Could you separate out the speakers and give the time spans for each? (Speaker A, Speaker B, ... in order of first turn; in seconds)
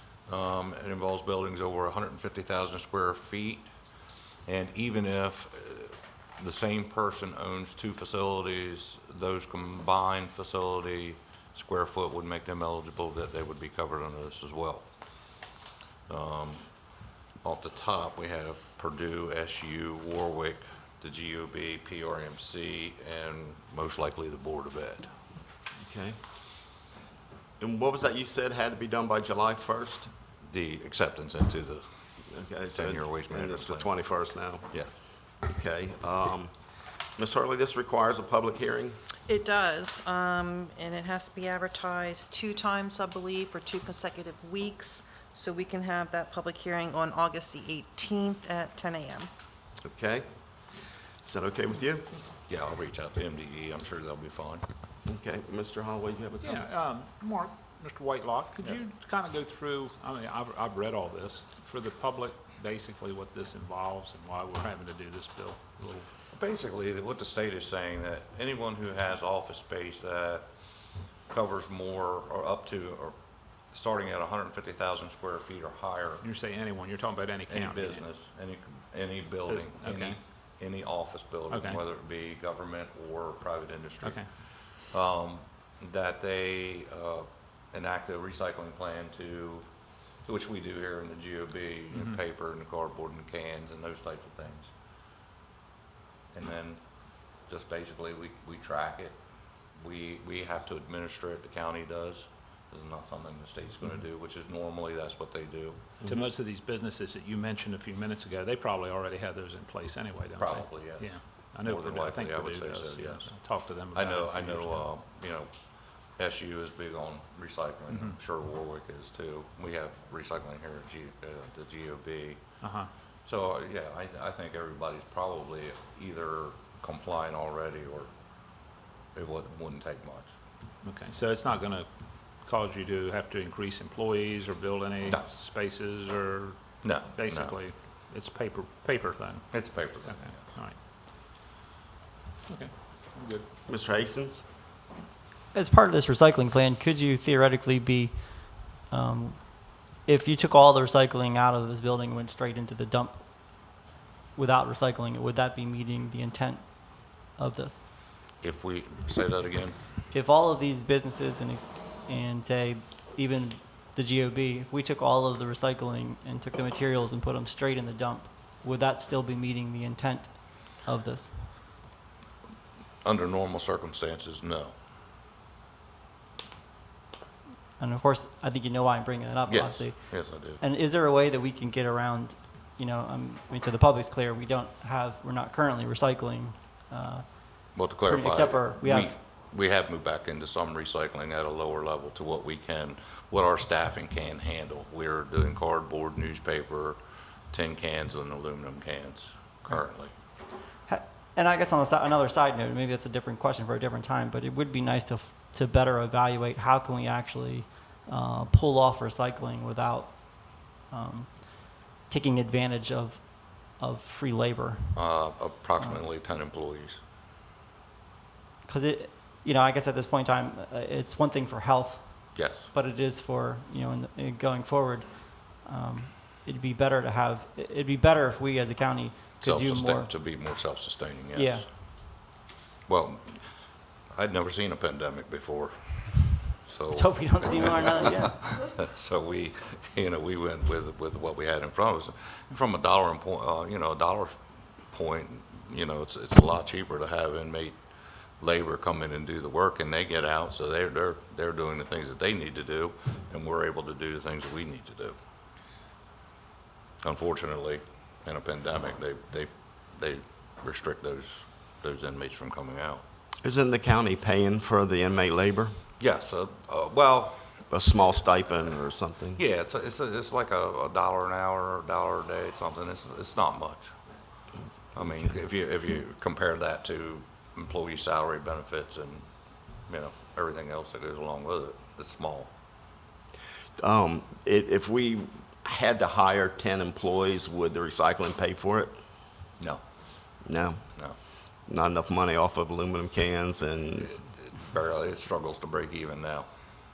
Speaker A: 0.3-3.7, 4.5-14.9, 16.1-16.7, 17.4-25.2, 30.4-31.9, 32.7-33.9, 34.7-35.1, 52.5-54.6, 66.3-70.5, 71.3-73.2, 73.7-76.2, 77.5-89.7, 90.2-94.7, 96.3-96.8, 97.4-99.2, 99.8-106.0, 110.4-115.5, 116.2-122.5, 123.2-128.1, 129.1-130.3, 136.8-137.6, 139.5-140.5, 158.4-159.8, 173.0-174.7, 179.5-180.6, 187.7-197.0, 197.5-200.1, 214.9-217.0, 222.3-222.7, 229.4-231.7, 232.9-233.4, 234.1-247.8, 248.4-255.2, 257.0-263.0, 266.0-267.5, 269.4-273.9, 274.9-279.3, 279.9-282.5, 294.0-296.5
Speaker B: 25.8-26.2, 27.6-30.1, 32.3-34.7, 35.4-36.5, 37.2-39.0, 49.8-50.3, 51.2-52.1, 55.1-56.7, 143.7-144.4, 263.4-265.8, 267.7-269.4, 283.8-288.9, 290.4-290.9, 291.7-294.2
Speaker C: 39.3-49.3
Speaker D: 56.4-66.1, 76.2-78.1, 79.5-80.2, 81.5-81.8, 91.9-92.2, 106.0-114.9, 117.9-118.2, 122.6-122.9, 130.8-140.8, 142.5-143.4
Speaker E: 145.5-157.9, 160.1-171.5, 177.8-189.1, 200.9-215.3, 218.7-230.6, 231.3-231.7, 236.9-238.6